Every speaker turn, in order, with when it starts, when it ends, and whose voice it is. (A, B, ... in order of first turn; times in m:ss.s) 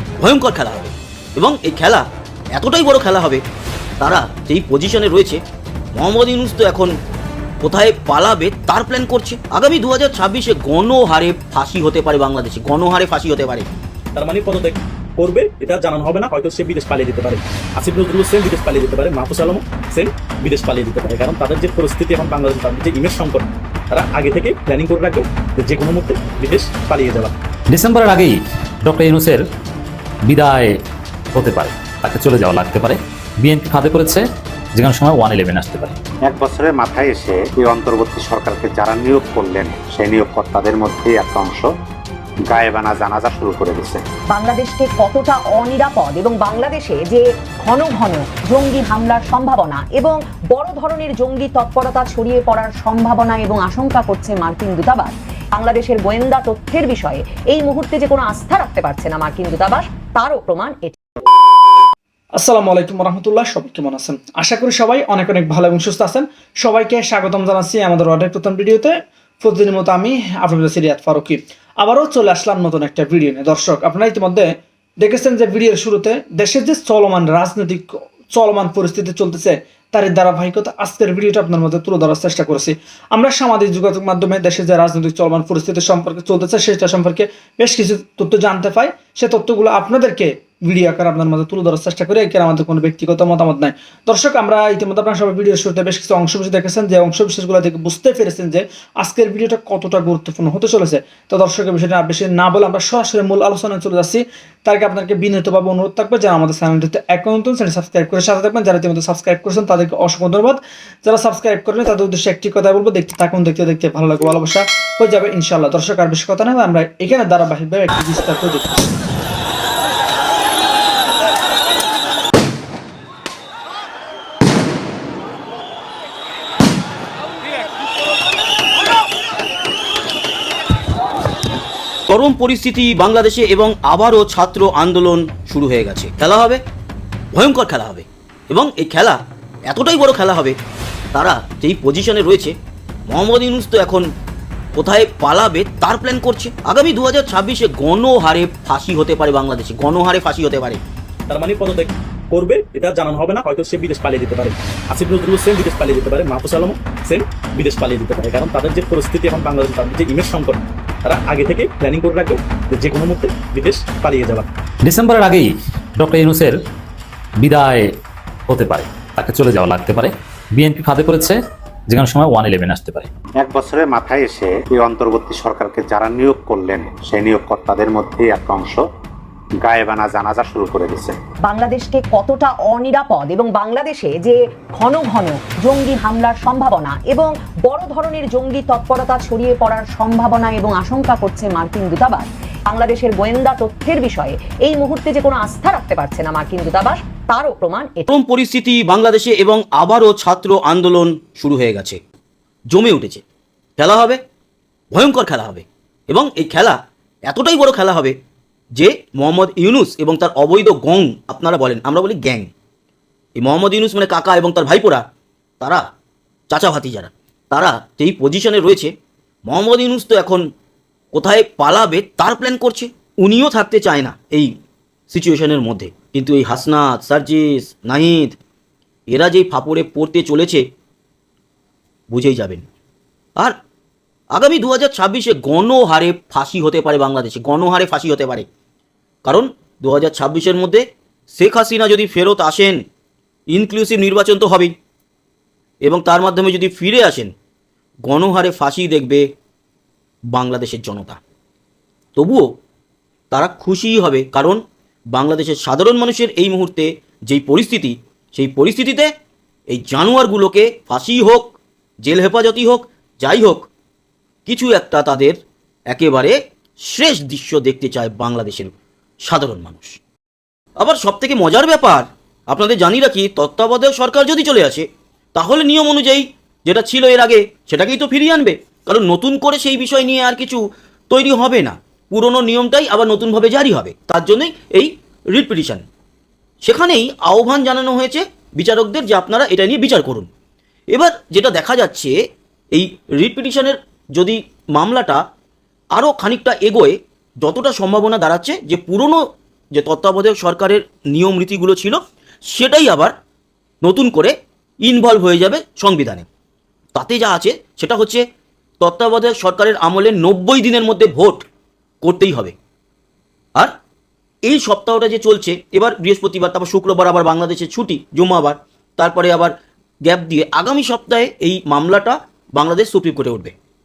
0:00.2-0:03.4 A
0:04.0-0:05.4 A
0:06.0-0:06.9 A
0:07.6-0:13.7 A
0:14.2-0:27.3 B
0:27.7-0:29.5 C
0:30.2-0:30.8 C
0:31.3-0:36.0 C
0:36.3-0:41.7 D
0:42.5-0:44.0 D
0:44.3-1:01.0 E
1:02.4-1:59.0 F
2:12.1-2:16.6 A
2:17.3-2:20.6 A
2:21.1-2:22.6 A
2:23.1-2:24.1 A
2:24.8-2:30.8 A
2:31.3-2:44.5 B
2:44.8-2:46.6 C
2:47.4-2:47.9 C
2:48.5-2:51.4 C
2:51.9-2:53.1 C
2:53.4-2:58.8 D
2:59.6-3:01.2 D
3:01.5-3:18.1 E
3:18.1-3:22.0 A
3:22.7-3:23.2 A
3:23.8-3:24.2 A
3:24.9-3:28.2 A
3:28.8-3:32.5 A
3:33.4-3:35.1 A
3:36.5-3:38.9 A
3:39.5-3:40.5 A
3:41.1-3:44.5 A
3:45.1-3:48.4 A
3:49.1-3:50.6 A
3:52.1-3:52.7 A
3:54.3-3:58.5 A
3:59.2-4:02.8 A
4:03.5-4:04.7 A
4:05.8-4:07.3 A
4:08.0-4:09.3 A
4:10.3-4:11.2 A
4:12.2-4:12.5 A
4:13.3-4:14.6 A
4:15.1-4:19.1 A
4:19.7-4:23.7 A
4:24.5-4:28.7 A
4:29.2-4:30.0 A
4:30.8-4:45.9 A
4:46.6-4:50.3 A
4:50.9-4:52.2 A
4:52.7-4:55.2 A
4:55.9-5:03.2 A
5:03.8-5:06.3 A
5:06.9-5:08.2 A
5:08.8-5:11.5 A
5:12.0-5:12.6 A
5:14.4-5:23.6 A